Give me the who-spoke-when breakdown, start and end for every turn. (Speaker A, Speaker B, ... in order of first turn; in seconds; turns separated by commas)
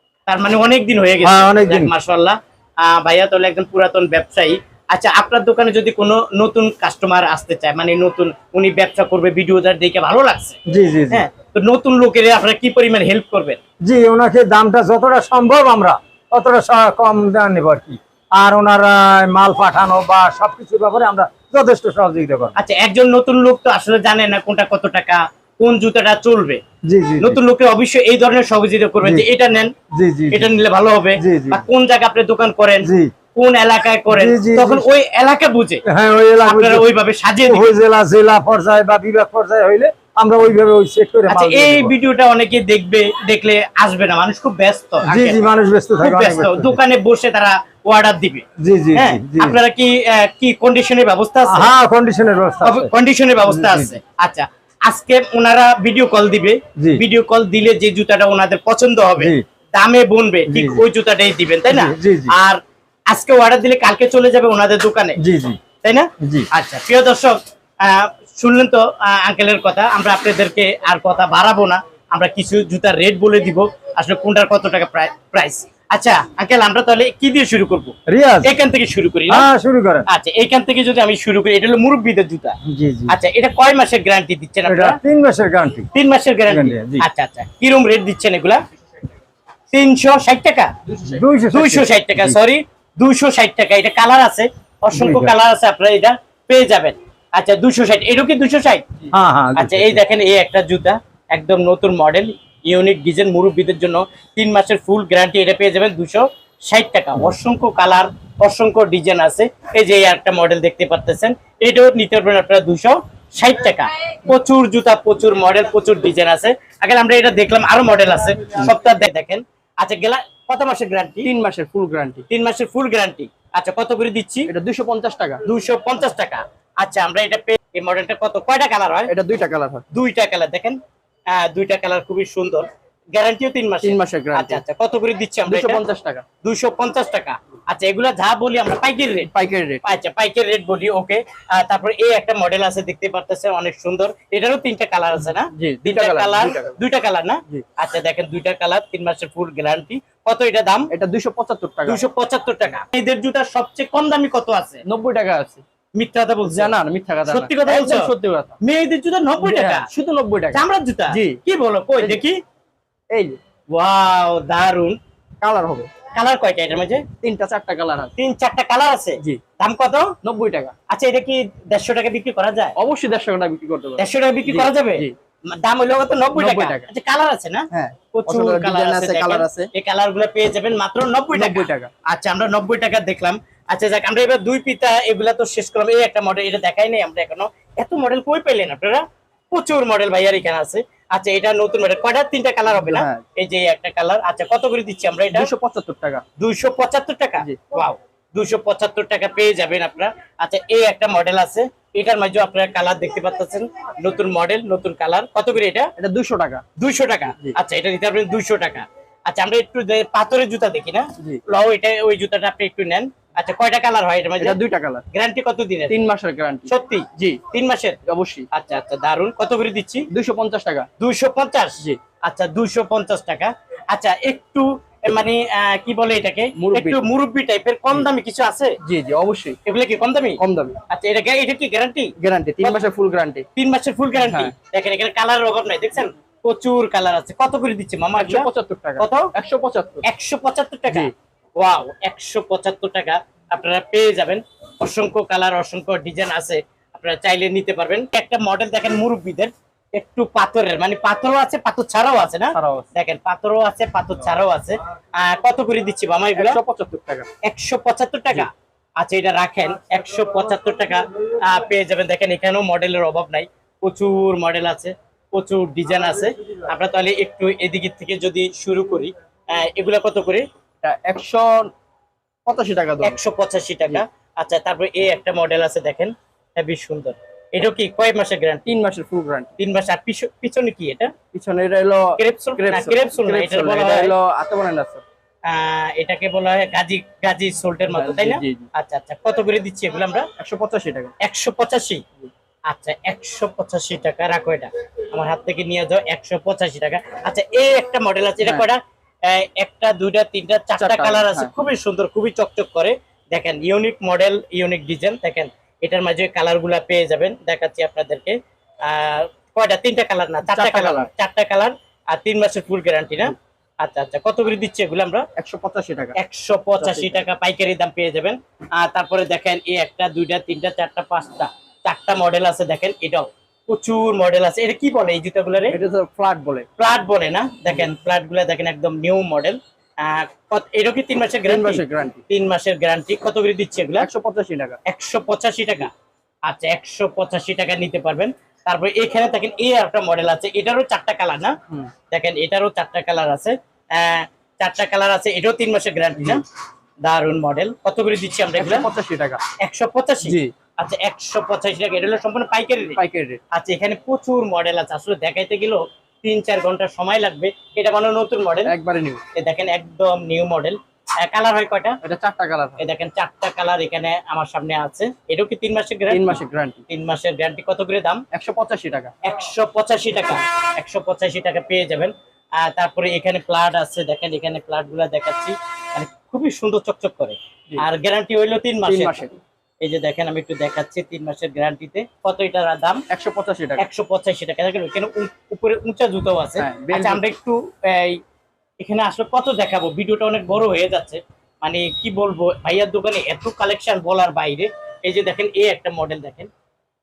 Speaker A: 0.3-10.6, Speaker B: 1.2-1.9, Speaker B: 10.7-11.2, Speaker A: 11.1-13.6, Speaker B: 13.8-22.6, Speaker A: 22.6-26.6, Speaker B: 26.9-27.4, Speaker A: 27.2-29.7, Speaker B: 29.0-29.3, Speaker B: 29.9-30.5, Speaker A: 30.3-35.8, Speaker B: 31.2-31.6, Speaker B: 32.8-33.1, Speaker B: 34.1-34.8, Speaker B: 35.9-36.9, Speaker A: 36.4-37.7, Speaker B: 37.4-41.9, Speaker A: 41.3-45.2, Speaker B: 45.0-46.8, Speaker C: 45.1-45.4, Speaker A: 46.0-51.7, Speaker B: 48.6-49.6, Speaker B: 51.5-52.9, Speaker A: 52.6-62.6, Speaker B: 53.5-54.0, Speaker B: 59.2-59.4, Speaker B: 60.5-60.8, Speaker B: 61.7-62.3, Speaker A: 63.1-65.2, Speaker B: 65.2-65.6, Speaker A: 65.8-79.5, Speaker B: 66.2-66.5, Speaker B: 78.1-78.5, Speaker B: 79.3-80.1, Speaker A: 80.1-82.5, Speaker B: 82.6-83.2, Speaker A: 83.1-85.0, Speaker B: 84.7-85.9, Speaker A: 85.9-88.6, Speaker B: 86.5-87.0, Speaker A: 89.7-90.7, Speaker C: 90.9-91.2, Speaker B: 91.1-92.3, Speaker A: 91.5-98.8, Speaker B: 94.9-95.3, Speaker B: 99.1-100.0, Speaker A: 99.5-121.3, Speaker C: 121.2-122.2, Speaker A: 122.3-124.5, Speaker C: 124.5-125.4, Speaker A: 125.4-129.1, Speaker C: 129.1-129.8, Speaker A: 129.9-130.8, Speaker A: 131.3-135.8, Speaker C: 133.8-134.6, Speaker C: 135.5-136.2, Speaker A: 136.4-139.3, Speaker C: 139.3-139.9, Speaker A: 139.8-150.9, Speaker C: 145.5-146.8, Speaker C: 150.9-152.0, Speaker A: 151.8-154.8, Speaker C: 154.8-155.6, Speaker A: 155.9-156.7, Speaker C: 156.4-158.6, Speaker A: 157.2-159.9, Speaker C: 159.4-161.4, Speaker A: 160.5-162.4, Speaker C: 163.1-163.4, Speaker A: 163.7-165.0, Speaker C: 165.4-165.9, Speaker A: 166.1-167.1, Speaker C: 167.2-168.1, Speaker A: 168.2-170.1, Speaker C: 170.2-170.7, Speaker A: 170.9-172.7, Speaker C: 172.8-175.1, Speaker A: 174.0-195.5, Speaker C: 176.3-176.9, Speaker C: 177.7-179.7, Speaker C: 181.3-181.9, Speaker C: 192.7-193.2, Speaker C: 195.3-196.2, Speaker A: 196.4-205.9, Speaker C: 206.0-206.6, Speaker A: 206.8-214.6, Speaker C: 214.4-215.0, Speaker A: 215.1-216.0, Speaker C: 215.9-217.4, Speaker A: 216.7-218.0, Speaker C: 218.1-218.5, Speaker A: 218.5-220.1, Speaker C: 220.1-220.9, Speaker A: 221.0-228.7, Speaker C: 226.6-227.1, Speaker C: 228.8-229.6, Speaker A: 229.6-232.8, Speaker C: 230.4-230.8, Speaker C: 232.2-233.4, Speaker A: 233.5-238.5, Speaker C: 234.2-234.5, Speaker C: 238.2-240.0, Speaker A: 239.0-239.3, Speaker A: 240.0-256.6, Speaker C: 252.2-252.9, Speaker C: 256.4-257.3, Speaker A: 257.4-270.4, Speaker C: 270.8-271.7, Speaker C: 272.4-273.2, Speaker A: 273.0-278.6, Speaker C: 278.6-279.5, Speaker A: 279.6-281.1, Speaker C: 281.3-285.0, Speaker A: 282.2-284.1, Speaker A: 285.5-290.3, Speaker C: 287.9-288.7, Speaker C: 290.4-291.1, Speaker A: 291.2-292.0, Speaker A: 292.7-315.2, Speaker C: 300.8-301.5, Speaker C: 310.4-311.1, Speaker C: 315.4-316.2, Speaker A: 316.1-325.8, Speaker C: 316.8-317.2, Speaker C: 325.7-326.7, Speaker A: 326.8-334.1, Speaker C: 331.5-332.2, Speaker C: 334.0-334.8, Speaker A: 334.9-335.9, Speaker A: 336.4-341.5, Speaker A: 342.1-346.4, Speaker C: 346.2-346.4, Speaker A: 347.0-348.9, Speaker C: 348.6-349.4, Speaker A: 349.6-353.0, Speaker C: 350.2-350.5, Speaker C: 353.0-353.4, Speaker A: 353.5-358.7, Speaker C: 358.6-359.2, Speaker A: 359.3-361.9, Speaker C: 362.0-362.8, Speaker A: 362.8-366.3, Speaker C: 366.1-366.8, Speaker A: 366.9-368.2, Speaker C: 368.3-369.1, Speaker A: 369.2-379.3, Speaker C: 378.9-379.3, Speaker A: 379.8-383.0, Speaker C: 383.1-383.8, Speaker A: 383.8-388.2, Speaker C: 386.6-387.2, Speaker A: 388.8-396.5